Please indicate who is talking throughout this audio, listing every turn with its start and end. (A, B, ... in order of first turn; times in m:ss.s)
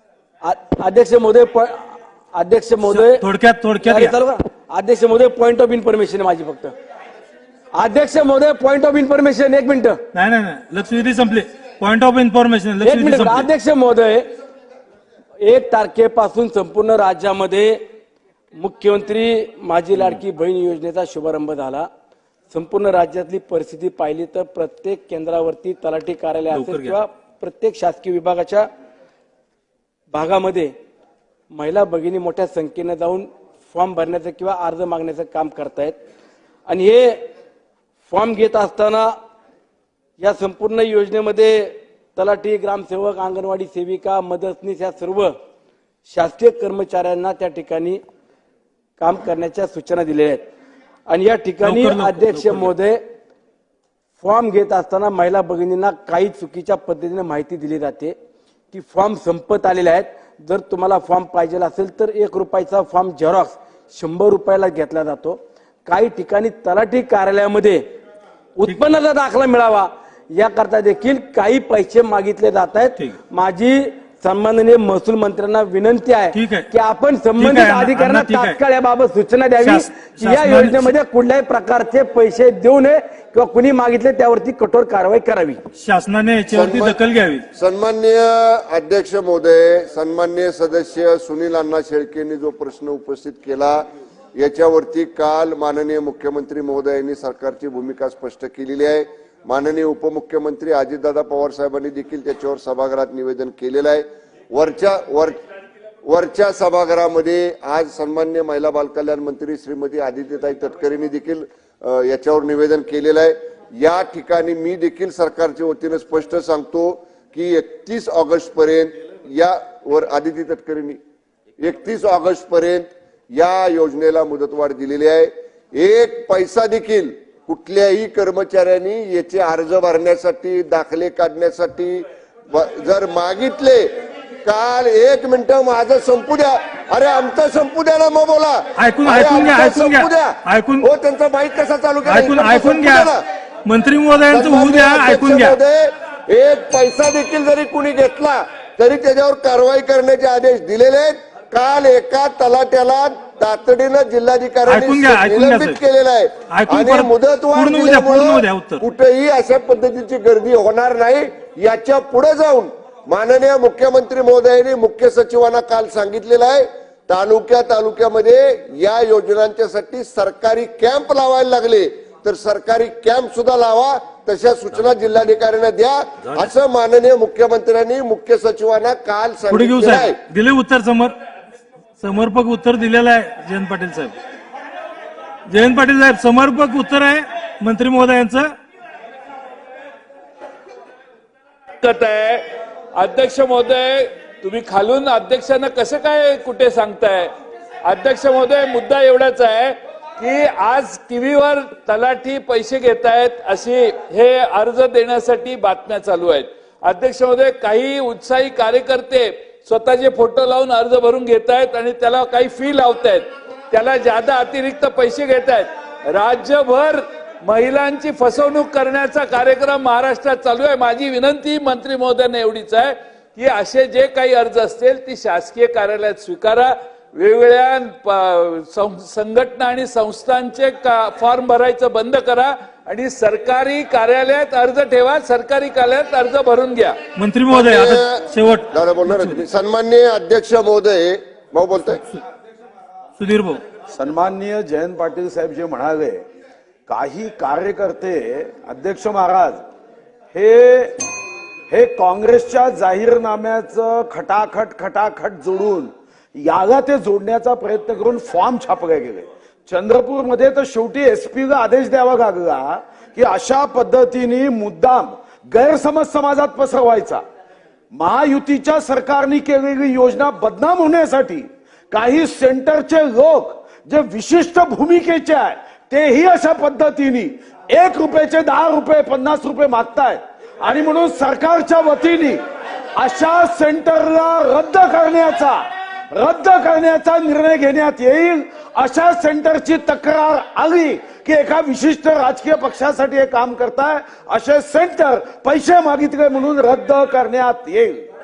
0:00.4-0:03.2 A
0:02.9-0:04.1 B
0:03.8-0:06.7 A
0:07.7-0:10.0 A
0:10.1-0:13.5 B
0:12.8-0:14.2 A
0:15.4-0:17.8 A
0:18.6-0:21.9 A
0:22.5-0:28.6 A
0:26.5-0:27.0 B
0:30.1-0:30.7 A
0:31.5-0:36.0 A
0:36.7-0:37.2 A
0:38.1-0:39.1 A
0:40.2-0:45.3 A
0:46.1-0:48.0 A
0:49.0-0:50.4 A
0:51.1-0:53.0 A
0:51.6-0:52.7 B
0:54.2-0:58.1 A
0:58.7-1:07.8 A
1:08.6-1:25.6 A
1:16.3-1:16.7 B
1:17.4-1:18.6 B
1:19.6-1:20.9 B
1:25.8-1:27.4 B
1:26.5-1:27.0 C
1:27.5-1:45.4 C
1:46.0-2:01.0 C
2:01.6-2:23.2 C
2:18.8-2:20.9 B
2:22.0-2:23.1 B
2:23.6-2:25.6 B
2:24.3-3:00.2 C
2:34.7-2:35.8 B
2:36.5-2:38.8 B
2:59.5-3:01.1 B
3:02.0-3:04.1 B
3:05.5-3:08.5 B
3:11.8-3:12.4 D
3:12.9-3:17.3 D
3:17.8-3:57.0 D
3:57.2-3:59.4 B
3:57.5-4:02.0 C
4:03.2-4:03.6 B
4:03.9-4:06.2 E
4:06.9-4:09.6 E
4:10.3-4:11.0 E
4:11.7-4:27.2 E
4:27.9-4:42.4 E
4:43.0-4:58.0 E